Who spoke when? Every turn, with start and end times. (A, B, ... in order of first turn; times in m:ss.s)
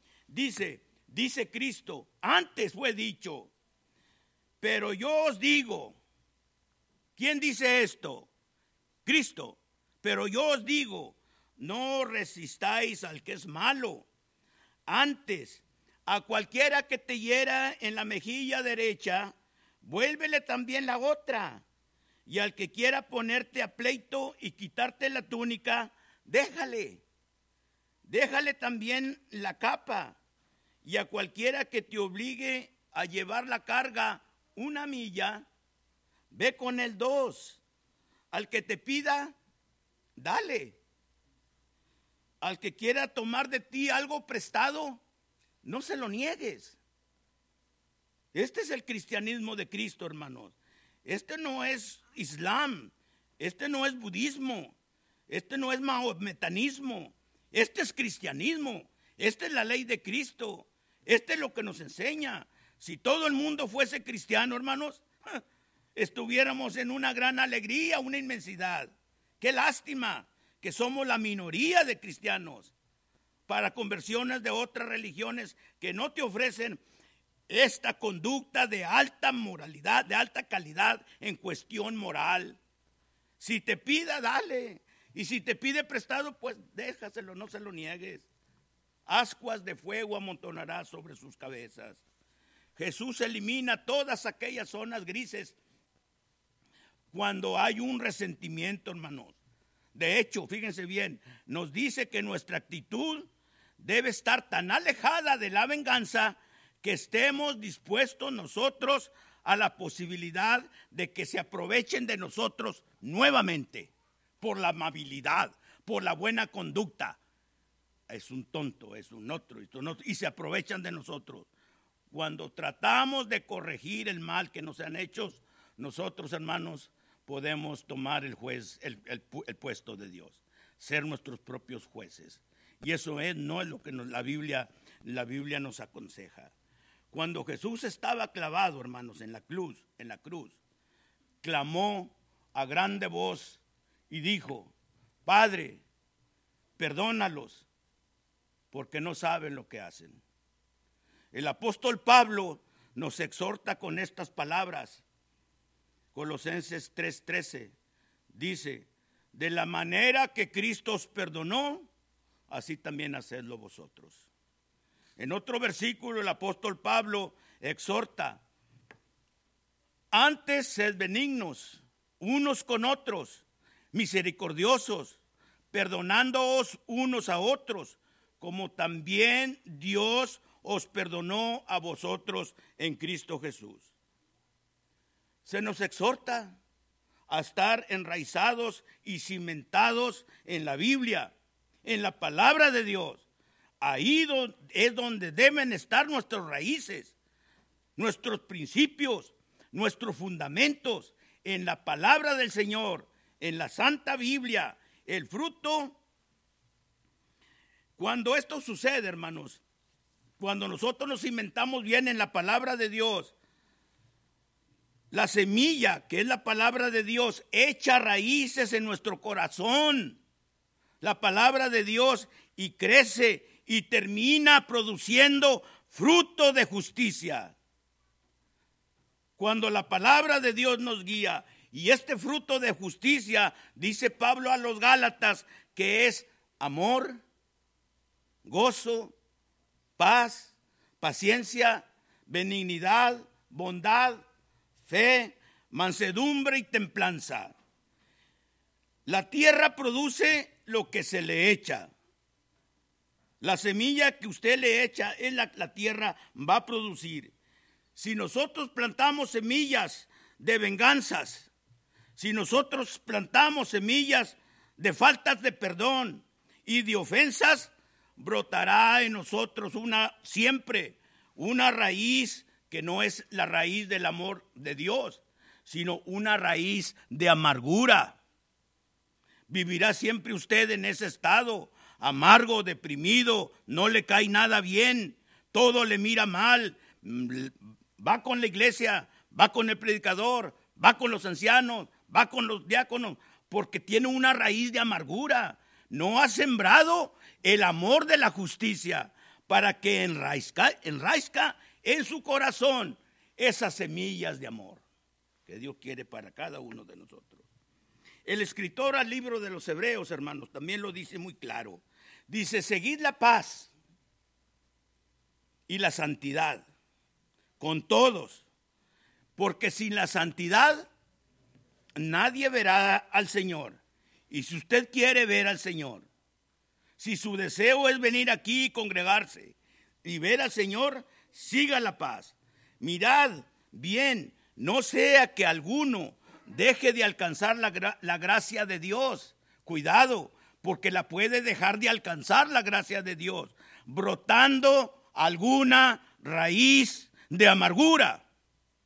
0:00.3-0:03.5 A
0:04.6-0:06.0 A
0:07.2-0:08.3 A
0:09.0-0:14.1 A
0:14.9-0:21.6 A
0:22.3-0:27.0 A
0:28.1-0:30.2 A
0:30.8-0:35.4 A
0:36.3-0:37.6 A
0:38.3-0:39.4 A
0:40.2-0:40.8 A
0:42.4-0:45.0 A
0:45.6-0:46.8 A
0:48.3-0:54.8 A
0:55.3-1:05.4 A
1:06.0-1:12.7 A
1:13.5-1:16.8 A
1:17.5-1:22.6 A
1:23.4-1:28.3 A
1:29.1-1:32.0 A
1:32.8-1:35.6 A
1:37.1-1:39.4 A
1:39.9-1:57.2 A
1:58.1-2:01.5 A
2:02.1-2:16.5 A
2:17.1-2:20.6 A
2:21.4-2:24.7 A
2:25.3-2:25.8 A
2:26.8-2:27.7 A
2:28.7-2:30.2 A
2:31.3-2:35.0 A
2:36.1-2:37.7 A
2:38.3-2:41.9 A
2:42.5-2:44.3 A
2:45.2-2:48.4 A
2:50.1-2:55.2 A
2:55.7-3:03.9 A
3:05.4-3:06.6 A
3:07.3-3:11.3 A
3:11.8-3:13.2 A
3:13.8-3:17.1 A
3:18.0-3:26.0 A
3:28.0-3:29.6 A
3:30.4-3:33.3 A
3:35.1-3:40.2 A
3:41.0-3:47.6 A
3:49.4-3:57.2 A
3:58.4-3:59.1 A
4:00.0-4:04.2 A
4:04.8-4:07.5 A
4:09.1-4:11.9 A
4:13.4-4:17.3 A
4:18.0-4:21.5 A
4:22.2-4:38.2 A
4:39.5-5:04.8 A
5:05.5-5:07.4 A
5:08.3-5:13.7 A
5:15.7-5:16.7 A
5:17.6-5:18.4 A
5:19.4-5:20.9 A
5:22.0-5:26.1 A
5:27.0-5:48.2 A